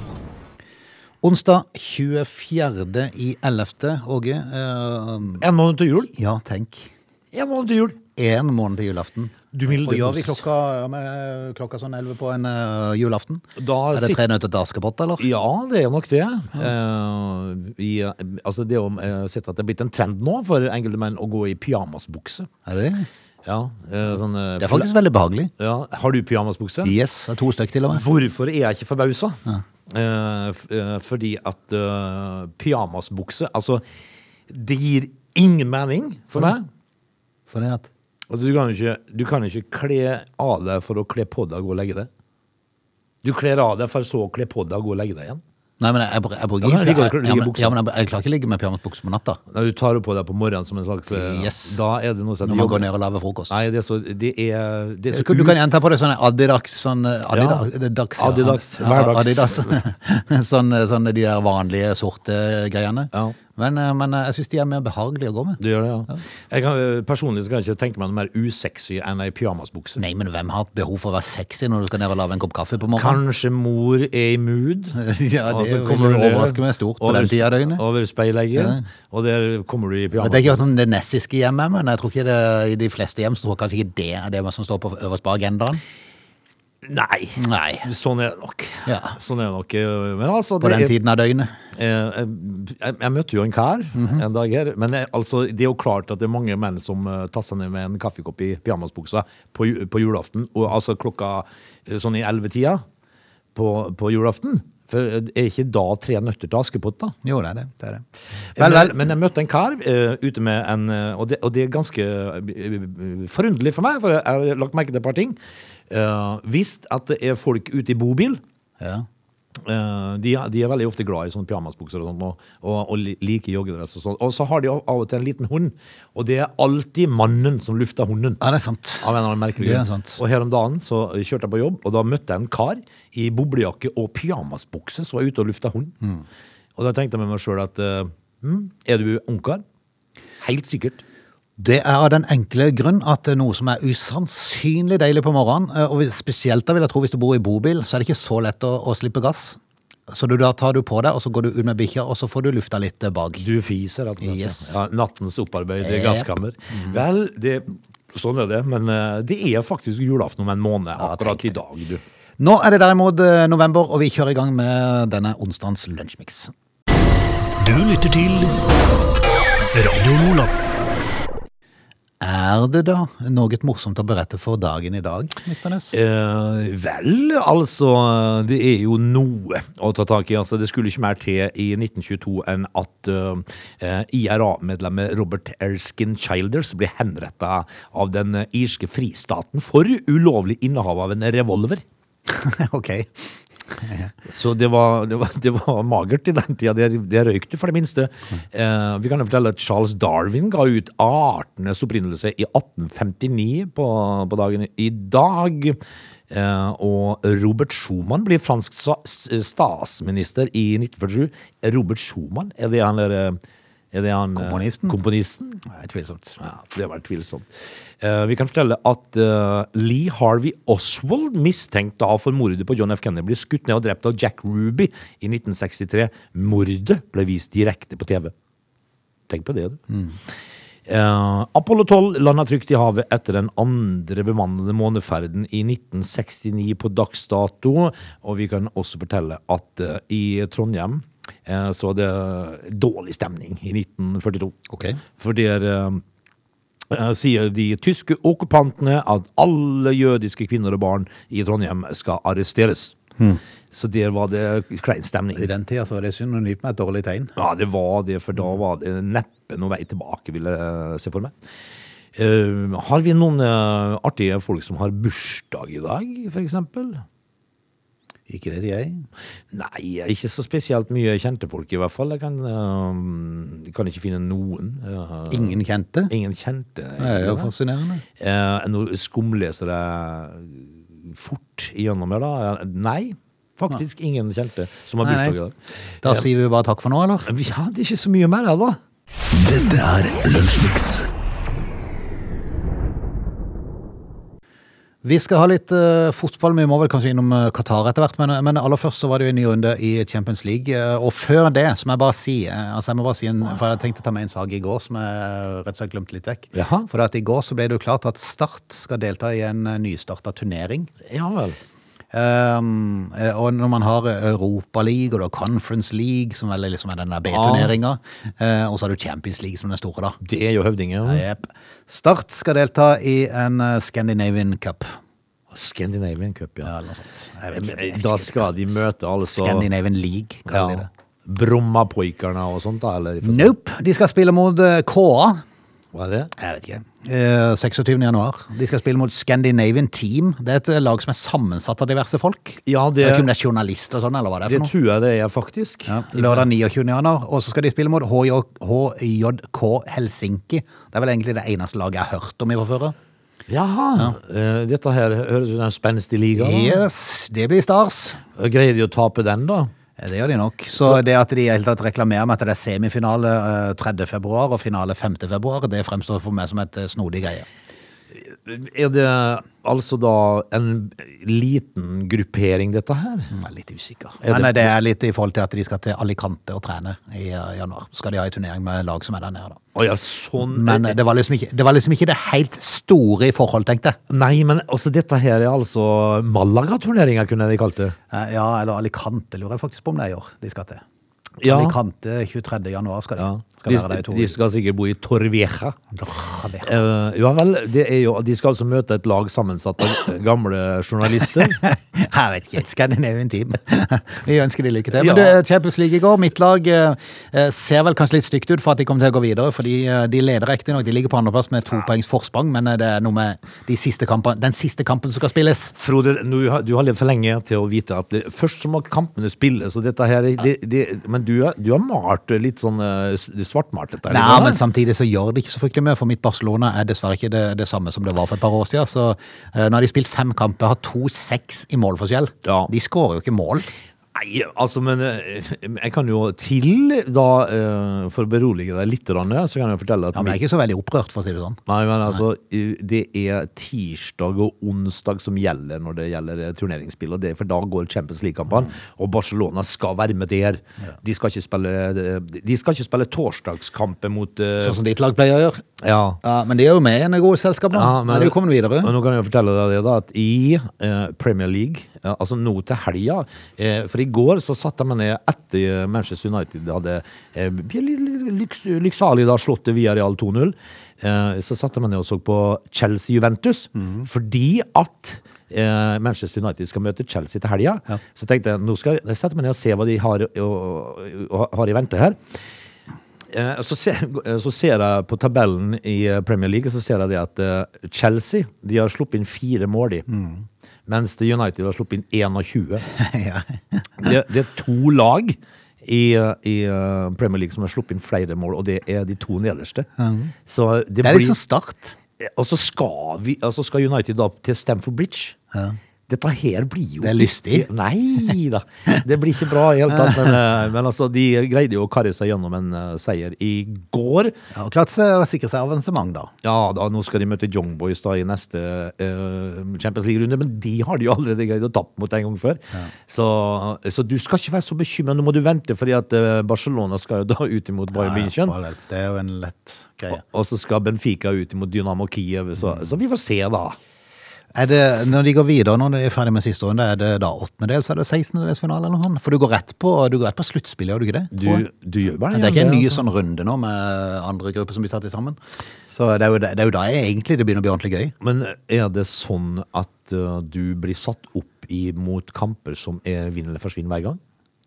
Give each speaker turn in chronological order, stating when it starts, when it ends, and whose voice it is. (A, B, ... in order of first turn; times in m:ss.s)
0:01.2-0:05.4 A
0:05.4-0:06.1 B
0:06.1-0:06.9 A
0:07.3-0:08.0 B
0:08.2-0:15.2 A
0:09.5-0:10.4 B
0:13.6-0:14.2 B
0:15.2-0:22.5 B
0:22.6-0:23.1 A
0:23.4-0:24.9 B
0:24.6-0:25.5 A
0:25.6-0:26.9 B
0:26.8-0:28.0 A
0:27.9-0:33.8 B
0:34.5-0:36.6 B
0:37.5-0:37.9 A
0:38.3-0:42.1 B
0:43.2-0:45.4 B
0:45.8-0:49.4 A
0:46.6-0:47.7 B
0:49.5-0:52.8 B
0:51.1-0:51.8 A
0:52.4-0:53.6 A
0:53.5-0:55.6 B
0:55.1-1:06.2 A
0:57.3-0:57.6 B
0:58.2-0:59.8 B
1:05.6-1:10.0 B
1:10.0-1:13.2 A
1:12.9-1:20.6 B
1:14.9-1:17.8 A
1:18.5-1:18.8 A
1:20.2-1:25.8 A
1:26.8-1:30.9 B
1:27.4-1:27.9 A
1:28.8-1:29.2 A
1:30.6-1:31.5 A
1:31.7-1:42.8 B
1:33.9-1:34.2 A
1:43.5-1:47.1 B
1:47.2-1:48.0 A
1:48.6-1:49.1 A
1:48.6-1:55.4 B
1:55.9-1:58.4 B
1:58.8-1:59.0 A
1:59.6-2:08.4 B
2:08.4-2:09.1 A
2:09.0-2:15.9 B
2:09.6-2:10.2 A
2:16.8-2:19.6 B
2:20.4-2:21.0 B
2:21.6-2:33.4 A
2:33.4-2:42.0 B
2:34.2-2:34.8 A
2:35.8-2:37.0 A
2:41.0-2:41.6 A
2:42.4-2:46.5 A
2:47.6-2:48.5 C
2:49.8-2:50.5 C
2:52.2-2:56.0 A
2:55.9-3:11.8 B
3:12.3-3:14.1 A
3:14.2-3:25.8 B
3:26.3-3:33.4 B
3:33.9-3:35.6 B
3:34.4-3:35.0 A
3:35.7-3:36.4 A
3:36.4-3:37.4 B
3:38.0-3:48.3 B
3:49.3-3:49.8 B
3:50.9-4:06.0 B
4:04.7-4:05.0 A
4:06.9-4:13.0 B
4:13.7-4:15.5 B
4:15.4-4:17.3 A
4:17.4-4:21.3 B
4:22.2-4:27.0 B
4:28.3-4:29.1 A
4:29.5-4:35.6 B
4:35.3-4:36.1 A
4:36.1-4:37.5 B
4:37.0-4:38.0 A
4:38.2-4:46.2 B
4:45.0-4:45.4 A
4:46.0-4:47.3 A
4:47.3-4:48.8 B
4:49.3-4:51.1 C
4:55.0-5:10.9 A
5:06.5-5:06.9 B
5:11.1-5:11.6 B
5:12.1-5:20.2 A
5:17.3-5:17.7 B
5:20.2-5:21.2 B
5:21.0-5:25.0 A
5:25.5-5:26.7 B
5:26.6-5:30.9 A
5:27.5-5:29.7 B
5:30.5-5:33.5 B
5:33.2-5:35.4 A
5:35.9-5:36.3 B
5:36.4-5:44.7 A
5:42.7-5:43.3 B
5:44.5-5:46.5 B
5:45.9-5:52.9 A
5:53.5-5:56.8 B
5:56.4-5:58.2 A
5:58.4-5:59.7 B
6:00.0-6:07.4 A
6:08.2-6:13.3 B
6:13.3-6:19.6 A
6:14.2-6:14.7 B
6:19.7-6:21.0 B
6:20.4-6:24.0 A
6:24.1-6:28.0 B
6:28.1-6:30.8 A
6:31.4-6:31.8 B
6:31.4-6:34.3 A
6:33.2-6:35.8 B
6:35.9-6:36.8 A
6:36.6-6:41.6 B
6:41.4-6:55.7 A
6:44.9-6:45.4 B
6:55.8-7:04.6 B
7:04.1-7:13.7 A
7:12.4-7:12.7 B
7:14.1-7:20.4 B
7:20.1-7:21.6 A
7:21.7-7:34.8 B
7:34.6-7:35.6 A
7:35.8-7:36.2 B
7:36.2-7:38.9 A
7:37.7-8:02.2 B
7:53.8-7:54.0 A
8:03.3-8:10.1 B
8:10.1-8:10.4 A
8:10.9-8:12.8 B
8:12.9-8:14.1 A
8:14.0-8:19.9 B
8:20.0-8:20.3 A
8:20.5-8:21.4 B
8:21.0-8:22.0 A
8:22.2-8:25.4 B
8:26.1-8:34.3 B
8:27.0-8:27.7 A
8:30.0-8:30.4 A
8:34.5-8:36.3 A
8:36.4-8:48.6 B
8:47.9-8:50.2 A
8:50.1-8:53.8 B
8:54.5-9:01.6 A
9:01.3-9:03.0 B
9:02.3-9:08.1 A
9:08.2-9:14.2 B